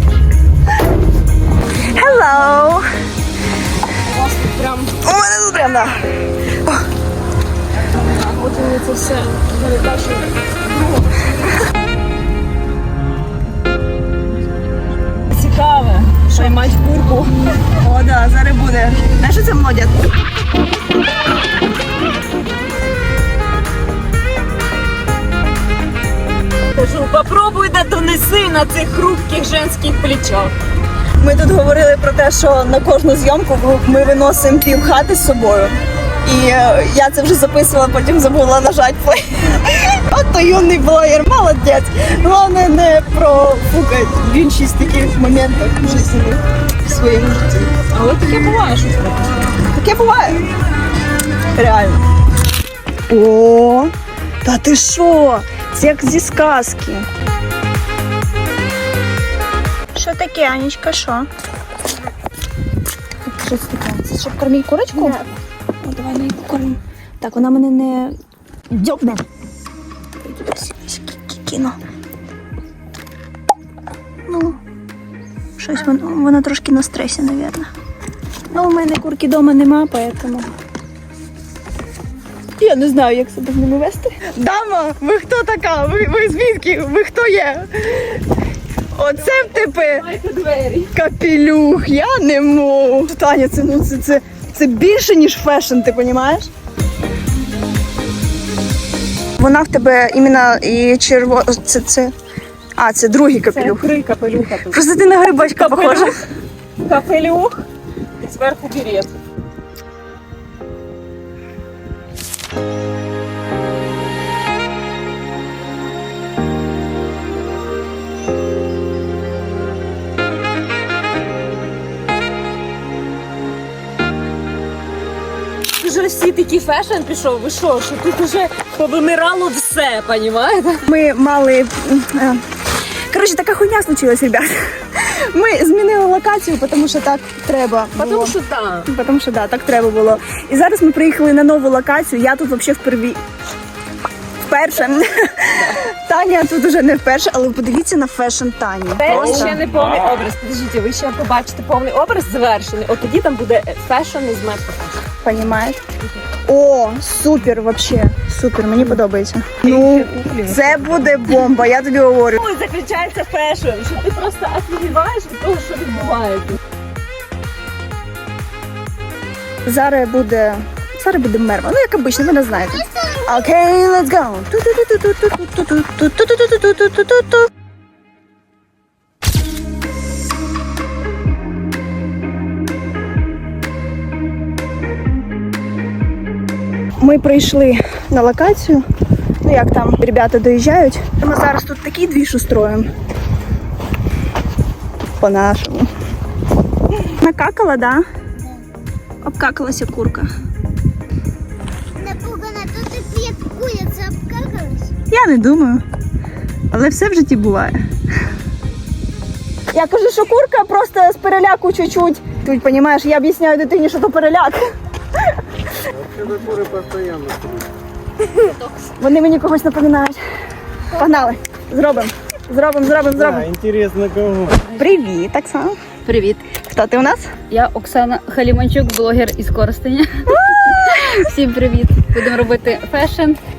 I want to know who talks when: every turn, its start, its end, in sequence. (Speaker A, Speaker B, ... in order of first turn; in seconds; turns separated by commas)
Speaker A: 1.8-2.9, Speaker B: 4.0-4.9, Speaker A: 5.0-6.8, Speaker B: 8.0-11.4, Speaker B: 15.3-17.3, Speaker A: 17.8-20.1, Speaker B: 26.7-30.5, Speaker A: 31.2-47.7, Speaker B: 47.9-49.2, Speaker A: 49.7-50.5, Speaker A: 51.5-52.0, Speaker A: 53.1-57.0, Speaker A: 59.9-61.3, Speaker A: 63.2-65.3, Speaker A: 65.8-68.1, Speaker A: 68.7-69.2, Speaker A: 70.2-71.7, Speaker A: 74.3-74.6, Speaker A: 75.6-77.7, Speaker A: 78.5-80.5, Speaker A: 82.6-88.2, Speaker A: 88.9-90.1, Speaker B: 89.2-90.9, Speaker A: 90.9-96.5, Speaker A: 99.4-102.1, Speaker A: 102.8-103.8, Speaker B: 103.5-104.8, Speaker A: 104.7-106.1, Speaker B: 105.3-106.1, Speaker B: 106.8-107.7, Speaker B: 108.2-109.1, Speaker B: 125.8-130.8, Speaker A: 130.9-132.4, Speaker A: 133.1-143.2, Speaker B: 137.9-138.9, Speaker A: 144.4-149.6, Speaker B: 149.0-155.0, Speaker A: 155.2-155.8, Speaker A: 156.4-162.4, Speaker B: 159.6-161.2, Speaker B: 162.4-166.6, Speaker A: 169.6-177.5, Speaker A: 187.0-188.8, Speaker A: 189.4-192.9, Speaker A: 195.2-195.9, Speaker A: 196.9-198.0, Speaker A: 199.2-200.3, Speaker C: 202.0-204.9, Speaker A: 205.1-205.8, Speaker A: 206.7-207.8, Speaker A: 209.7-214.6, Speaker D: 215.9-217.7, Speaker A: 219.0-220.2, Speaker A: 220.9-223.5, Speaker D: 223.2-224.6, Speaker A: 224.7-225.8, Speaker E: 226.1-226.4, Speaker A: 226.4-227.3, Speaker E: 227.5-233.4